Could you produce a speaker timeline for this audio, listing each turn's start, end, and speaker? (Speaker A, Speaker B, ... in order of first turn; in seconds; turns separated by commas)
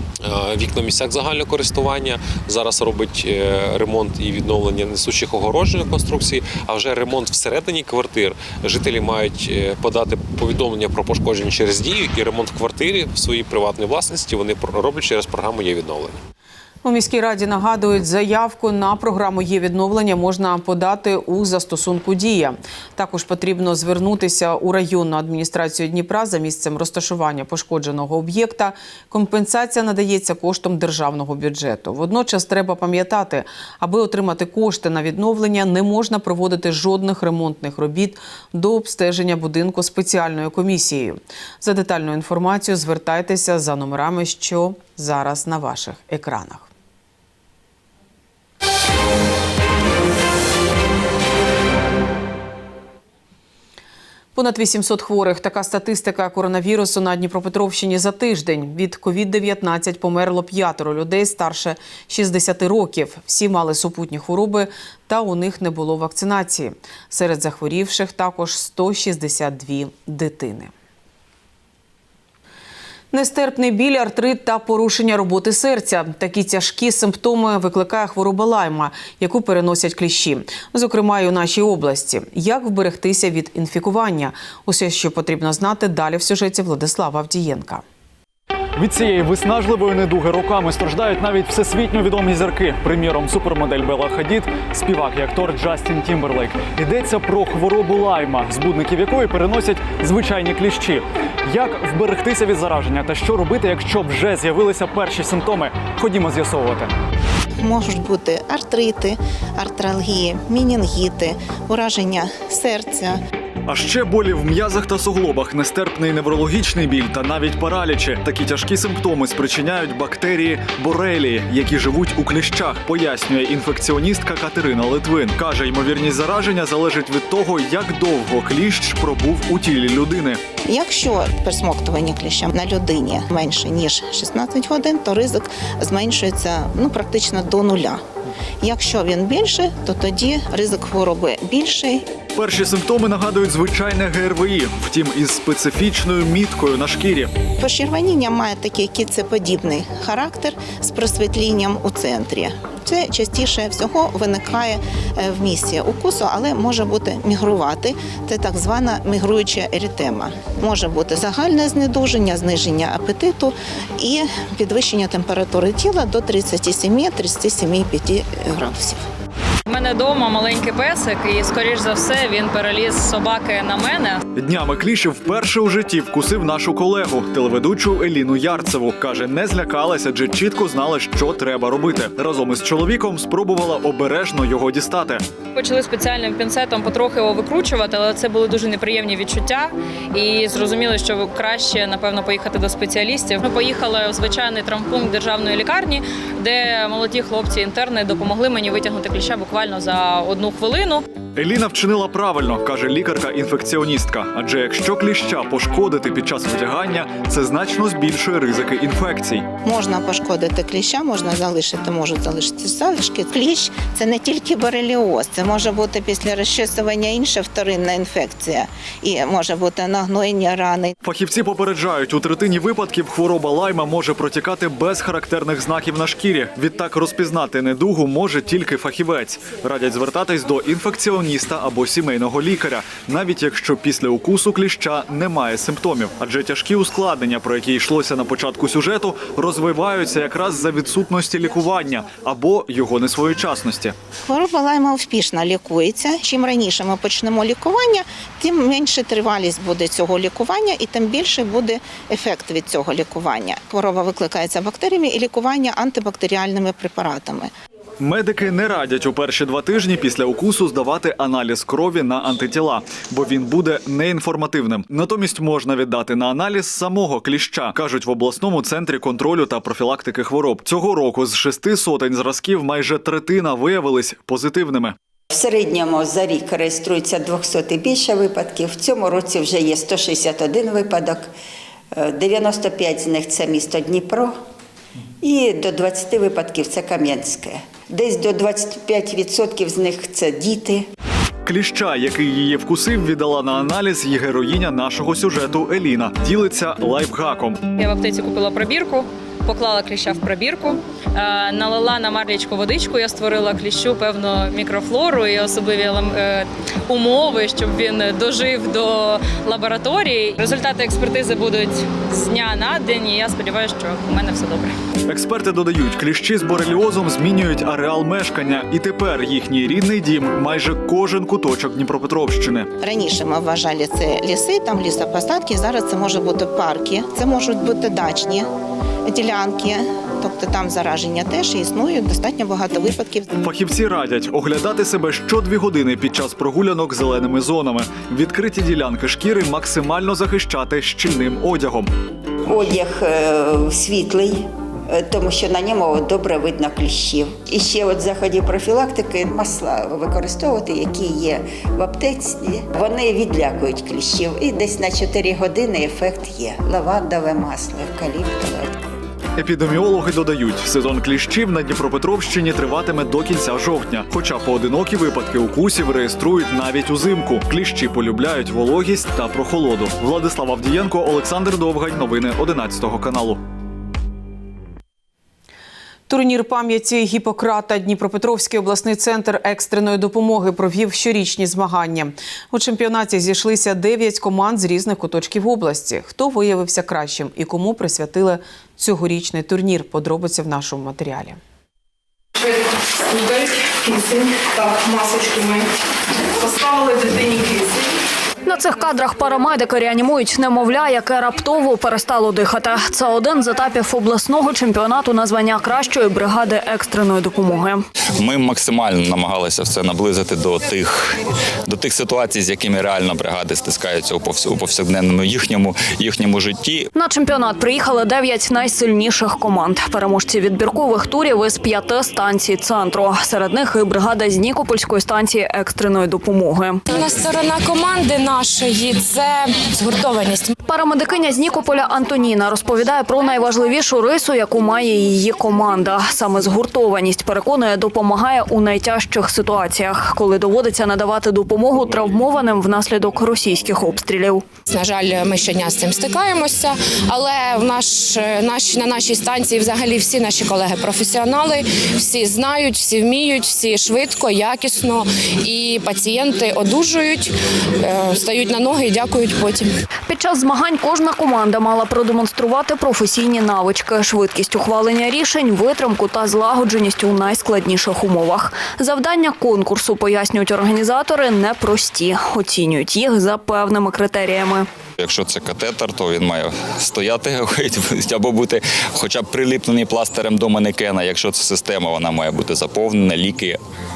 Speaker A: 0.2-16.2, Speaker B: 16.8-46.7, Speaker B: 54.3-70.7, Speaker B: 73.1-87.8, Speaker C: 88.8-106.9, Speaker D: 107.6-113.2, Speaker C: 113.7-130.4, Speaker D: 130.7-138.0, Speaker D: 138.6-142.1, Speaker C: 142.3-147.3, Speaker D: 147.6-169.0, Speaker E: 169.7-174.2, Speaker C: 174.3-185.2, Speaker E: 185.5-201.0, Speaker C: 201.3-209.4, Speaker D: 209.6-220.9, Speaker C: 221.0-243.9, Speaker D: 244.2-257.5, Speaker C: 258.0-274.9, Speaker F: 275.3-281.3, Speaker F: 281.9-284.3, Speaker F: 285.2-290.9, Speaker C: 291.4-297.6, Speaker E: 297.8-314.7, Speaker C: 315.1-322.7, Speaker D: 322.8-328.5, Speaker D: 329.1-333.3, Speaker C: 333.4-341.9, Speaker F: 342.4-358.9, Speaker C: 359.4-373.4, Speaker B: 376.1-391.4, Speaker G: 392.4-395.6, Speaker G: 396.3-397.8, Speaker H: 398.5-407.8, Speaker I: 408.2-416.9, Speaker H: 417.0-426.8, Speaker G: 426.9-430.5, Speaker H: 430.7-444.4, Speaker G: 444.7-459.7, Speaker H: 460.1-474.6, Speaker I: 475.0-483.6